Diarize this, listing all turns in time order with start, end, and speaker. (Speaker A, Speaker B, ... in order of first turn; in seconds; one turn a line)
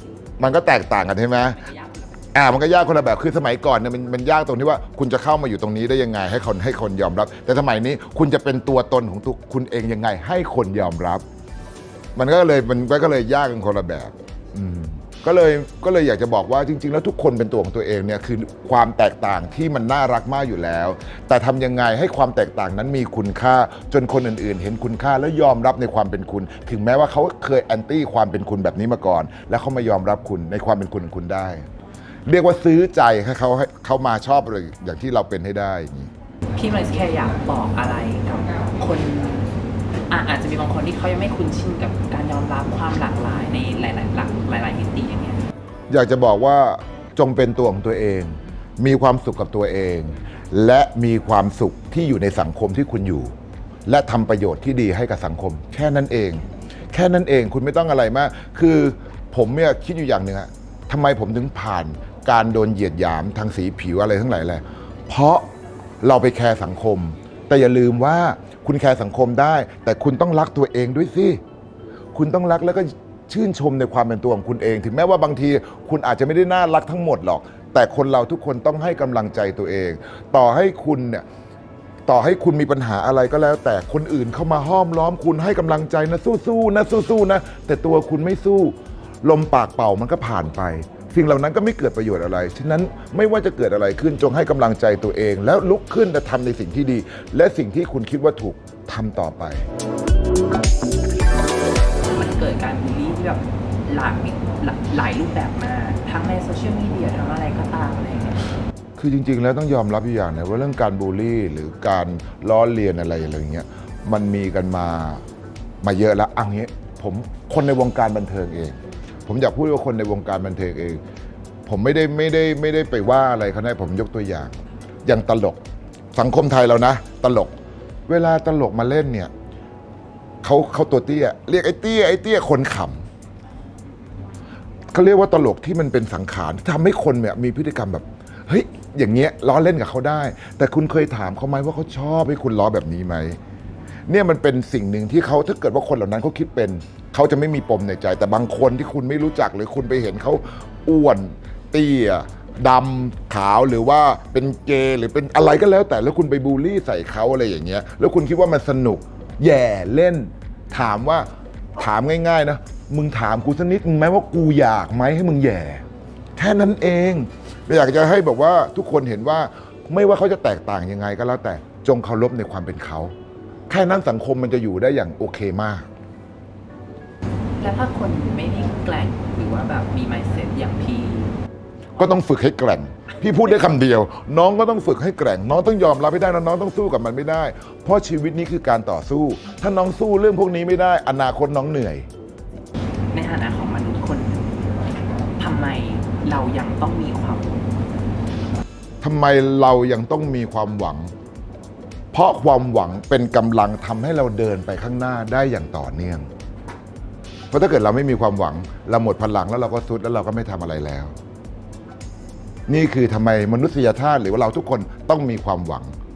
Speaker A: 0.4-1.6
Speaker B: 1.6-2.2
Speaker A: 2.3-11.2
Speaker A: 12.2-31.6
Speaker A: 32.2-36.1
Speaker B: 36.5-39.5
Speaker B: 40.1-45.4
Speaker A: 45.9-53.3
Speaker A: 53.9-65.5
Speaker A: 66.0-71.4
Speaker A: 72.1-81.2
Speaker A: 82.1-99.7
Speaker B: 102.1-108.4
Speaker A: 109.0-115.2
Speaker A: 115.8-121.0
Speaker A: 121.7-125.6
Speaker A: 126.1-127.5
Speaker A: 128.1-129.3
Speaker A: 130.4-133.0
Speaker A: 134.9-143.4
Speaker A: 144.1-165.8
Speaker A: 166.4-173.1
Speaker A: 173.7-175.8
Speaker B: 177.6-181.3
Speaker A: 182.0-192.1
Speaker B: 193.1-194.5
Speaker B: 195.4-197.7
Speaker A: 199.0-201.1
Speaker A: 202.1-206.3
Speaker A: 207.5-211.1
Speaker A: 212.7-216.0